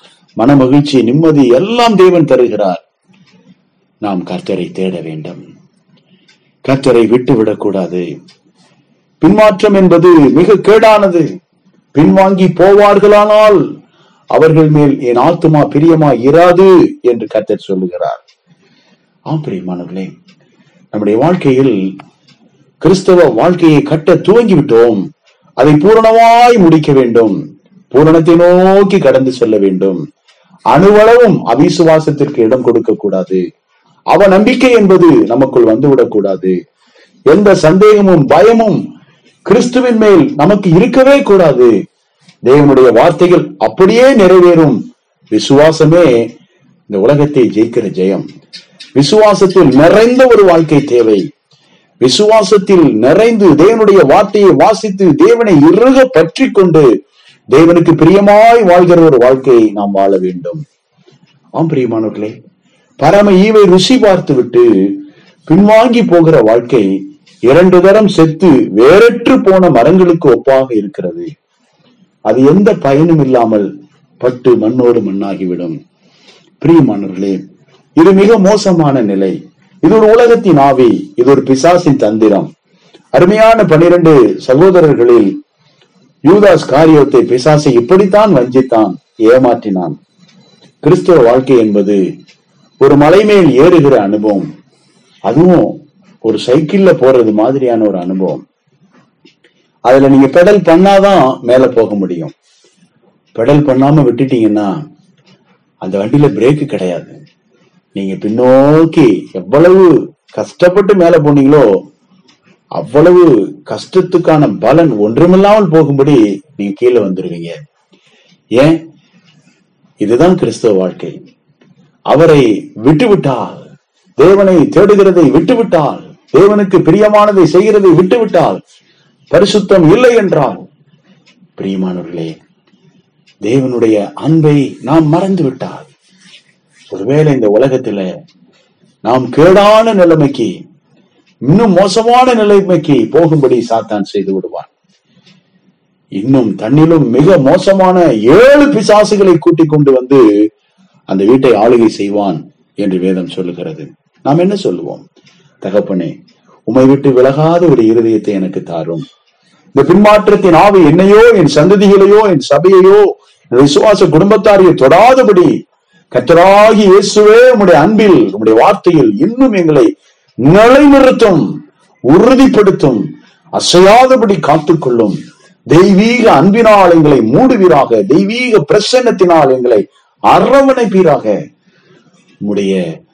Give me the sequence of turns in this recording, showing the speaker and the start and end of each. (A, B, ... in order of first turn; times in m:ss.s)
0:00.4-0:02.8 A
0:04.0-0:05.4 A
0:06.6-0:08.0 A
0:09.2-0:11.2 A
0:11.9-0:13.6 A
0:14.3-0:18.2 A
0:19.3-0:20.1 A
0:20.9-0:21.8 A
0:22.8-0:25.0 A
0:25.6-0:27.3 A
0:27.9-0:30.0 A
0:30.7-0:33.4 A
0:34.1-0:36.5 A
0:37.3-0:38.8 A
0:39.4-0:41.7 A
0:42.4-0:44.8 A
0:45.3-0:46.2 A
0:46.9-0:48.2 A
0:49.0-0:51.3 A
0:52.0-0:56.9 A
0:57.5-1:00.6 A
1:01.6-1:02.3 A
1:03.0-1:04.7 A
1:05.5-1:06.9 A
1:07.5-1:11.3 A
1:12.3-1:13.7 A
1:14.2-1:15.7 A
1:16.6-1:17.4 A
1:18.0-1:22.5 A
1:23.1-1:25.3 A
1:26.2-1:29.9 A
1:30.8-1:32.0 A
1:32.8-1:34.5 A
1:35.3-1:38.4 A
1:39.9-1:42.3 A
1:43.4-1:44.7 A
1:45.8-1:47.1 A
1:48.0-1:51.7 A
1:52.8-1:57.5 A
2:00.0-2:01.2 A
2:02.1-2:03.7 A
2:04.2-2:08.6 A
2:09.3-2:10.6 A
2:11.6-2:12.3 A
2:13.4-2:15.9 A
2:16.9-2:18.1 A
2:19.0-2:20.5 A
2:21.5-2:24.7 A
2:26.2-2:30.2 A
2:31.1-2:35.0 A
2:35.6-2:36.1 A
2:36.7-2:39.0 A
2:39.7-2:45.5 A
2:46.1-2:49.9 A
2:50.4-2:51.4 A
2:52.1-2:53.0 A
2:53.6-2:55.2 A
2:55.7-3:01.3 A
3:02.4-3:02.8 A